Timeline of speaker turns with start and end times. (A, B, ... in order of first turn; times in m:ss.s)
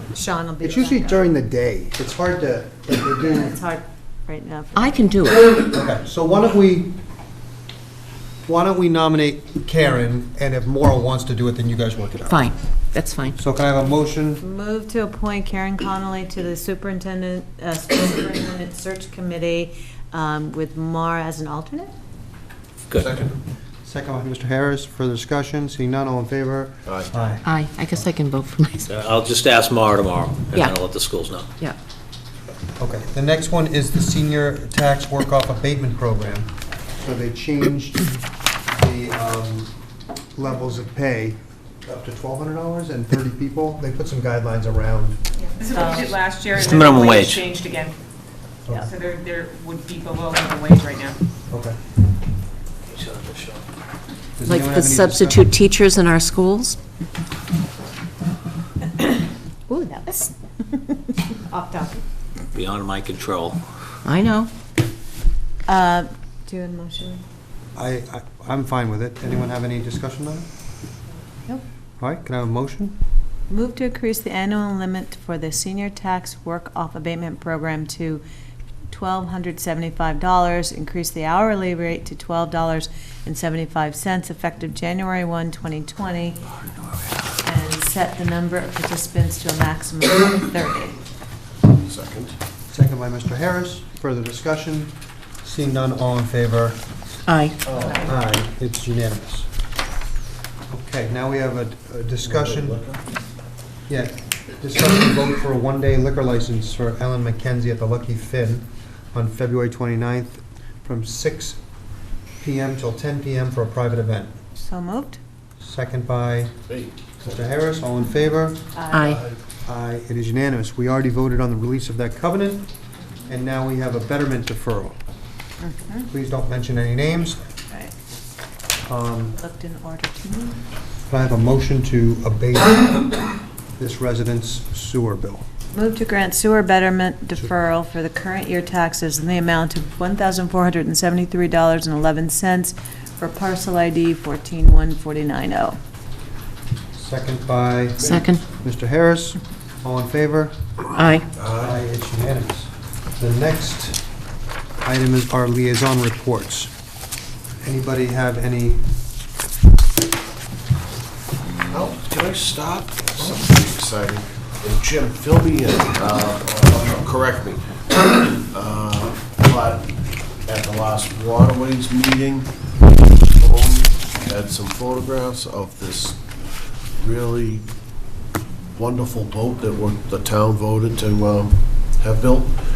0:00.1-0:01.2 A
0:00.6-0:03.6 B
0:03.2-0:05.0 A
0:04.8-0:05.5 C
0:05.7-0:06.9 B
0:08.4-0:12.5 B
0:12.3-0:13.4 C
0:13.4-0:14.4 B
0:14.4-0:21.9 A
0:22.9-0:23.4 D
0:23.8-0:27.4 B
0:26.8-0:27.1 D
0:27.4-0:28.9 C
0:28.8-0:31.5 E
0:32.8-0:38.2 B
0:38.7-0:39.7 B
0:40.3-0:45.2 B
0:45.6-0:47.9 F
0:45.7-0:46.1 A
0:46.5-0:47.5 E
0:48.6-0:48.9 B
0:48.9-0:51.2 F
0:51.5-0:51.8 B
0:52.9-0:53.6 E
0:54.4-0:55.5 B
0:54.4-0:56.8 C
0:59.7-1:02.0 A
1:02.5-1:03.6 E
1:04.0-1:04.5 C
1:05.7-1:07.2 A
1:07.7-1:10.4 B
1:12.0-1:13.0 B
1:13.5-1:18.2 A
1:18.9-1:26.4 A
1:27.4-1:31.0 A
1:31.6-1:32.4 D
1:32.7-1:36.8 B
1:37.3-1:37.6 C
1:37.6-1:38.1 D
1:37.8-1:38.1 A
1:37.9-1:39.5 B
1:40.7-1:42.8 B
1:42.2-1:43.0 D
1:43.9-1:51.6 B
1:52.4-1:54.3 B
1:54.5-1:55.2 A
1:55.6-1:56.5 B
1:56.7-1:57.2 D
1:57.2-1:58.7 B
1:58.8-1:59.1 A
1:58.9-1:59.2 C
1:59.6-2:02.7 B
2:03.3-2:05.0 B
2:05.6-2:06.1 A
2:06.1-2:07.4 B
2:07.7-2:07.9 A
2:08.8-2:09.4 B
2:09.3-2:10.6 A
2:11.1-2:13.2 B
2:13.8-2:15.4 B
2:15.7-2:25.8 A
2:26.9-2:30.6 B
2:28.0-2:28.3 D
2:28.0-2:28.4 C
2:30.9-2:31.2 C
2:31.4-2:31.8 D
2:31.5-2:34.0 B
2:34.8-2:36.7 B
2:37.6-2:38.9 B
2:41.7-2:49.9 D
2:50.4-2:52.5 D
2:53.4-2:56.2 D
2:57.0-2:57.6 D
2:58.7-3:02.6 D